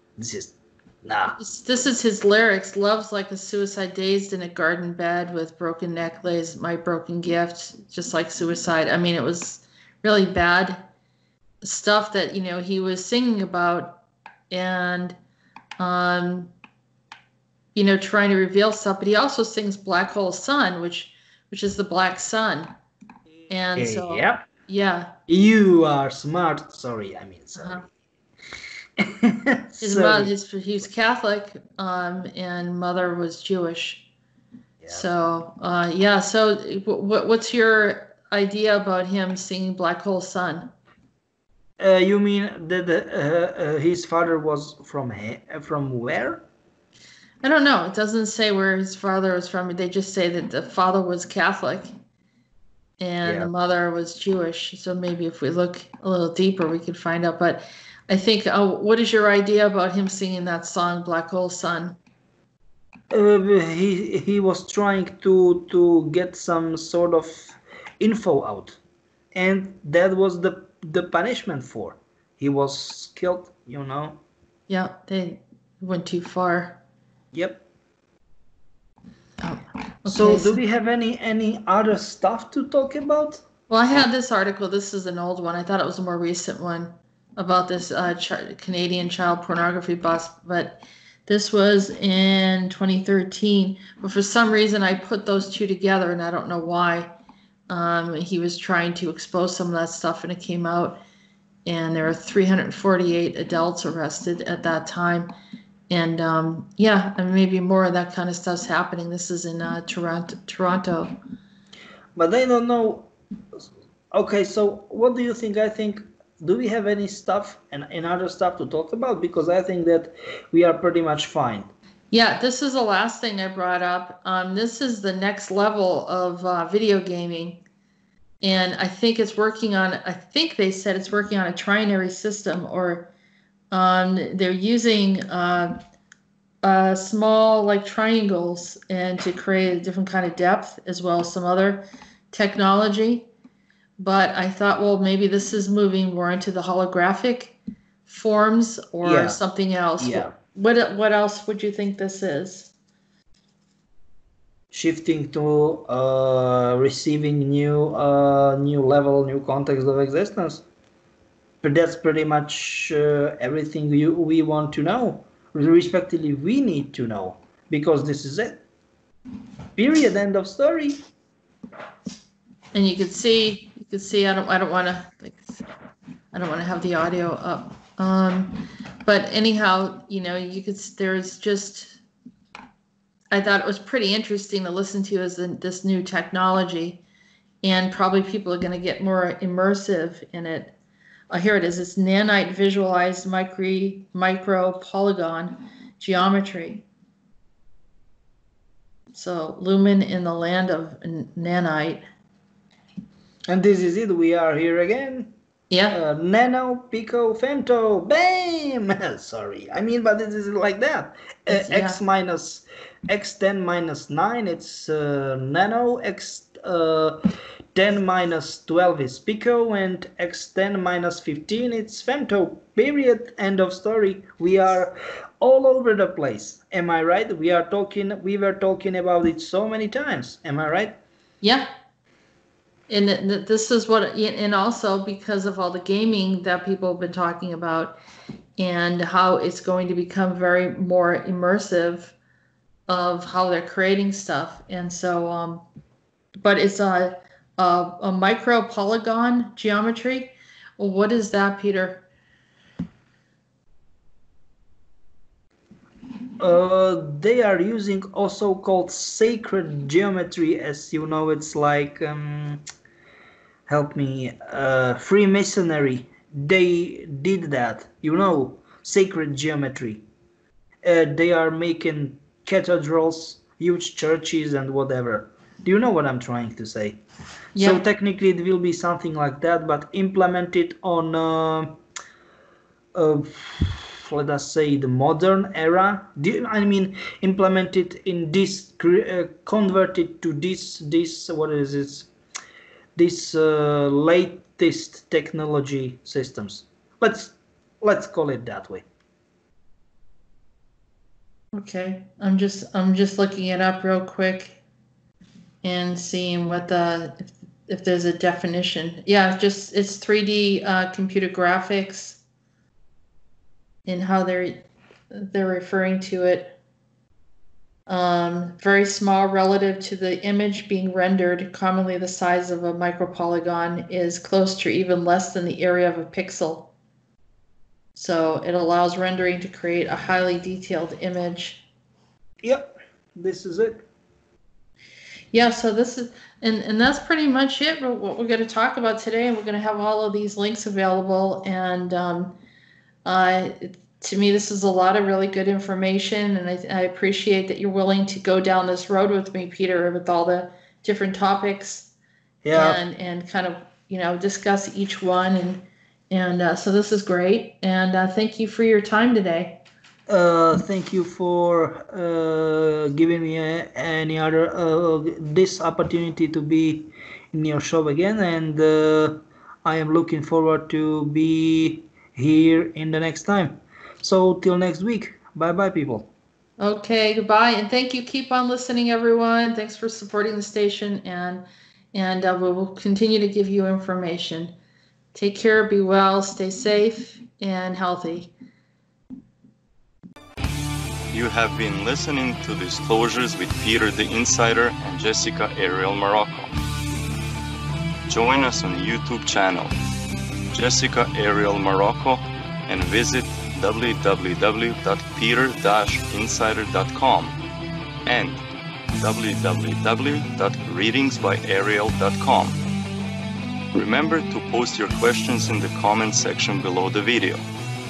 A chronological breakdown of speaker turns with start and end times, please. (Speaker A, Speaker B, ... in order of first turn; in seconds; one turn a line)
Speaker A: 0.2-1.4
Speaker B: 1.4-10.8
Speaker B: 11.6-15.2
Speaker B: 15.8-16.5
Speaker B: 17.7-22.7
Speaker B: 23.5-25.1
Speaker A: 23.8-24.5
Speaker A: 25.3-27.8
Speaker B: 27.6-27.9
Speaker A: 29.0-30.3
Speaker B: 29.8-34.1
Speaker B: 34.9-40.7
Speaker A: 41.8-46.4
Speaker B: 47.4-51.9
Speaker B: 53.0-62.0
Speaker A: 53.2-53.5
Speaker A: 63.1-68.8
Speaker A: 69.3-74.2
Speaker B: 74.7-76.8
Speaker A: 77.3-77.6
Speaker B: 79.4-80.6
Speaker A: 80.1-84.1
Speaker B: 83.7-97.1
Speaker B: 97.7-101.0
Speaker B: 101.7-105.3
Speaker B: 105.9-111.1
Speaker A: 112.2-113.1
Speaker A: 114.1-121.7
Speaker B: 122.1-127.6
Speaker B: 128.4-133.1
Speaker B: 133.7-135.7
Speaker B: 136.6-143.3
Speaker B: 144.0-147.6
Speaker B: 148.1-152.7
Speaker A: 149.0-149.4
Speaker A: 150.0-150.3
Speaker A: 154.7-160.6
Speaker A: 161.6-168.6
Speaker A: 169.8-171.0
Speaker B: 172.7-175.6
Speaker B: 176.3-182.0
Speaker B: 183.3-187.0
Speaker B: 187.6-190.8
Speaker B: 191.3-196.9
Speaker B: 199.1-202.0
Speaker A: 203.5-205.3
Speaker B: 205.7-206.0
Speaker A: 205.9-217.2
Speaker B: 211.5-212.0
Speaker A: 217.8-231.0
Speaker B: 231.4-231.7
Speaker B: 232.9-238.0
Speaker B: 238.6-242.2
Speaker B: 242.9-245.7
Speaker B: 246.4-252.1
Speaker A: 256.4-262.6
Speaker A: 263.7-270.0
Speaker A: 270.8-277.0
Speaker B: 277.6-277.8
Speaker A: 277.6-281.8
Speaker A: 282.9-292.1
Speaker A: 293.0-298.8
Speaker B: 301.5-304.6
Speaker B: 305.6-312.2
Speaker B: 313.9-316.6
Speaker B: 317.9-326.7
Speaker B: 327.9-331.6
Speaker A: 332.4-333.9
Speaker B: 335.3-342.4
Speaker B: 343.1-351.9
Speaker A: 352.4-352.8
Speaker B: 352.5-359.6
Speaker A: 360.1-376.1
Speaker B: 376.6-384.6
Speaker B: 385.1-388.3
Speaker C: 391.1-396.6
Speaker C: 398.1-399.7
Speaker C: 400.5-407.4
Speaker C: 408.1-408.4
Speaker C: 409.0-412.6
Speaker C: 413.7-417.4